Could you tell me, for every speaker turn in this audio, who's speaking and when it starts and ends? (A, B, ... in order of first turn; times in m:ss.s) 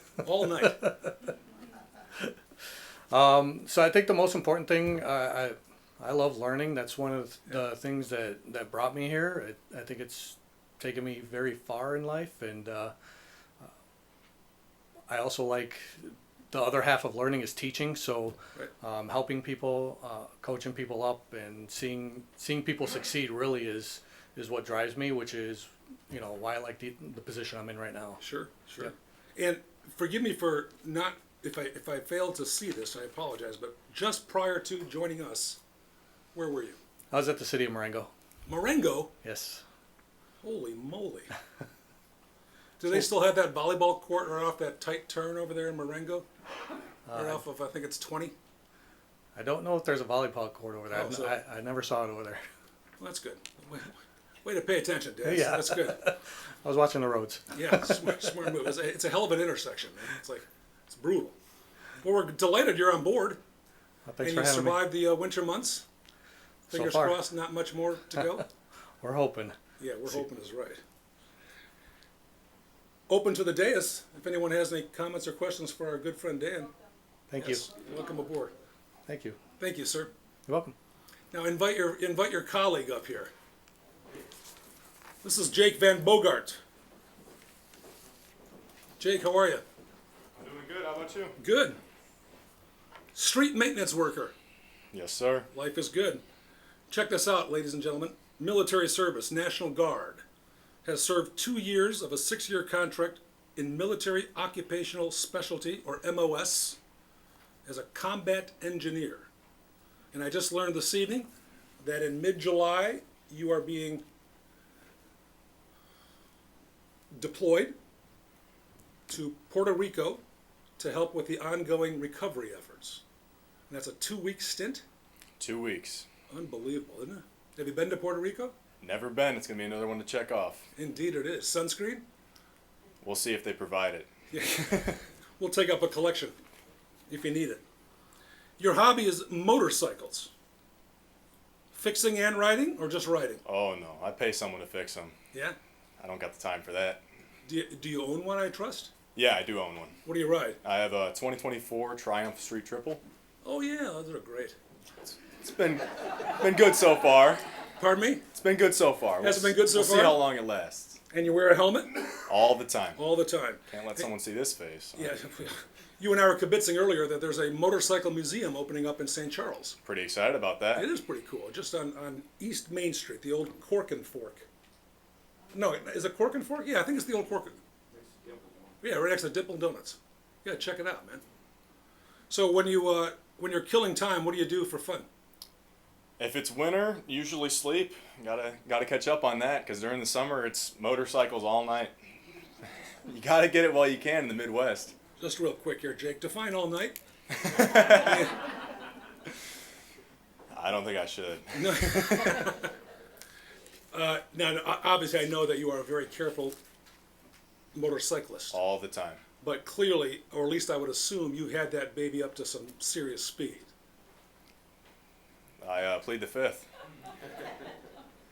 0:00.2-0:00.8 A
0:00.6-0:01.1 B
0:03.1-0:12.9 B
0:15.1-0:28.2 B
0:28.2-0:35.6 A
0:36.3-0:36.8 A
0:37.1-0:38.1 B
0:38.4-0:39.1 A
0:39.2-0:39.6 B
0:40.4-0:41.3 A
0:42.8-0:46.2 A
0:47.1-0:47.4 B
0:47.1-0:48.3 A
0:49.3-0:52.4 B
0:50.9-0:51.4 A
0:53.0-0:56.0 A
0:55.2-0:58.1 B
0:57.5-1:01.3 A
1:02.0-1:03.4 A
1:04.1-1:04.8 B
1:04.2-1:05.8 A
1:06.7-1:07.2 B
1:06.7-1:08.4 A
1:09.0-1:09.6 B
1:09.8-1:10.8 A
1:13.1-1:16.7 A
1:17.3-1:17.6 B
1:17.4-1:18.5 A
1:19.1-1:19.4 B
1:19.6-1:20.1 A
1:20.5-1:20.7 B
1:21.3-1:23.3 A
1:25.2-1:26.6 A
1:29.0-1:29.6 A
1:30.4-1:31.4 C
1:31.4-1:31.8 A
1:33.1-1:34.3 A
1:34.9-1:35.5 C
1:35.5-1:36.2 A
1:36.9-1:40.2 A
1:40.8-1:46.8 A
1:47.6-1:49.3 A
1:50.1-1:51.3 A
1:51.8-1:54.0 A
1:57.1-1:57.7 A
1:59.1-2:00.2 A
2:00.8-2:03.0 A
2:03.7-2:04.8 A
2:05.4-2:06.1 C
2:06.3-2:08.5 A
2:08.8-2:10.6 C
2:10.8-2:12.0 A
2:13.0-2:14.1 C
2:14.3-2:16.4 A
2:17.1-2:17.6 A
2:18.6-2:20.3 A
2:21.7-2:23.4 A
2:23.4-2:25.2 C
2:26.0-2:27.0 C
2:27.4-2:28.9 A
2:29.1-2:30.0 C
2:30.0-2:30.6 A
2:30.6-2:33.0 C
2:33.4-2:34.6 A
2:35.1-2:37.4 C
2:37.8-2:38.2 A
2:38.3-2:41.0 C
2:39.2-2:40.3 A
2:41.1-2:42.0 A
2:42.3-2:43.0 C
2:43.0-2:44.0 A
2:43.7-2:45.1 C
2:45.0-2:49.8 A
2:49.8-2:50.9 C
2:50.8-2:54.4 A
2:55.5-2:57.6 A
2:58.8-3:01.2 A
3:02.3-3:05.1 A
3:06.2-3:11.9 C
3:13.0-3:14.9 C
3:15.2-3:17.0 A
3:17.3-3:18.0 C
3:17.6-3:18.4 A
3:20.5-3:22.4 C
3:21.5-3:22.7 A
3:23.9-3:26.6 A
3:27.7-3:28.6 A
3:28.5-3:29.2 C
3:29.4-3:33.7 A
3:35.6-3:36.6 C